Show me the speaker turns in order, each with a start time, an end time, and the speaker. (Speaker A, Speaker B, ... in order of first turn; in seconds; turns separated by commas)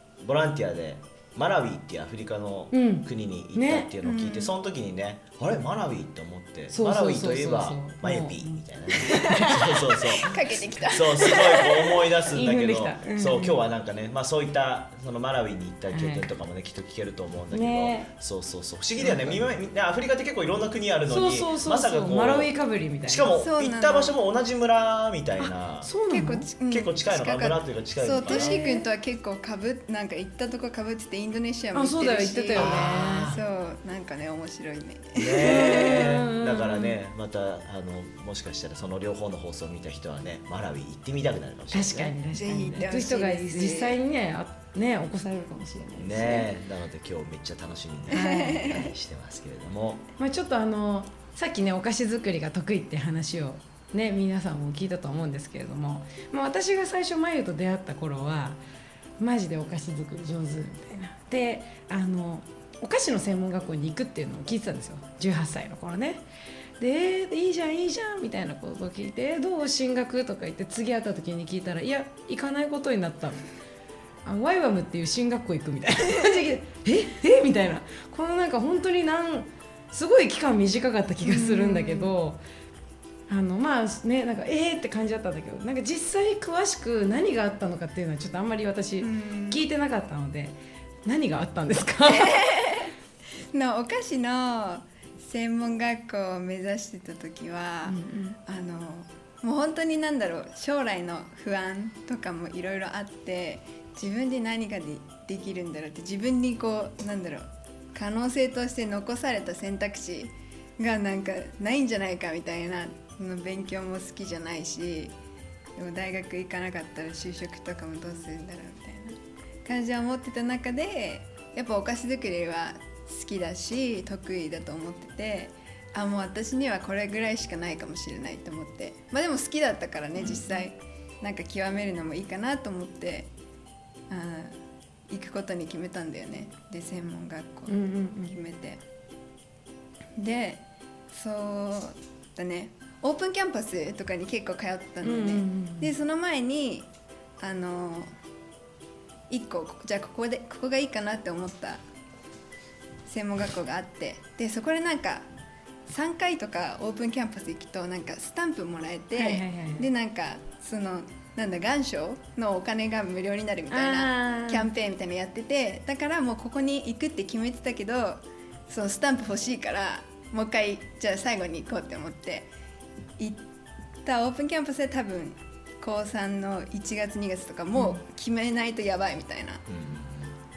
Speaker A: 0.2-22.5, Speaker B: 2.7-3.9, Speaker C: 4.0-4.5, Speaker B: 6.7-10.2, Speaker C: 10.2-12.0, Speaker B: 12.3-13.6, Speaker B: 15.9-16.3, Speaker B: 17.5-18.1, Speaker B: 19.0-19.4, Speaker B: 21.1-23.3, Speaker A: 23.1-25.9, Speaker C: 23.4-24.2, Speaker B: 25.8-26.5, Speaker C: 26.1-36.1, Speaker A: 26.7-28.6, Speaker B: 28.3-28.8, Speaker B: 31.8-33.4, Speaker A: 32.6-33.4, Speaker A: 35.2-42.8, Speaker B: 35.4-37.0, Speaker B: 41.7-46.5, Speaker C: 42.3-44.0, Speaker A: 46.0-50.1, Speaker B: 48.1-48.8, Speaker C: 48.1-48.8, Speaker B: 50.2-58.6, Speaker B: 59.2-66.2, Speaker B: 66.8-73.4, Speaker B: 74.2-82.4, Speaker C: 81.2-82.1, Speaker B: 83.3-90.5, Speaker C: 89.0-89.7, Speaker B: 91.1-92.5, Speaker C: 92.1-92.9, Speaker C: 93.5-115.2, Speaker B: 97.9-98.4, Speaker C: 115.8-133.3, Speaker B: 130.2-130.5, Speaker C: 134.1-134.6, Speaker C: 135.1-138.8, Speaker B: 137.7-138.3, Speaker C: 140.2-146.9, Speaker B: 145.0-145.9, Speaker C: 147.4-148.1, Speaker C: 149.3-151.8, Speaker C: 153.1-155.3, Speaker C: 155.9-172.5, Speaker B: 159.1-159.9, Speaker B: 163.7-164.7, Speaker C: 174.1-179.6, Speaker A: 179.7-180.3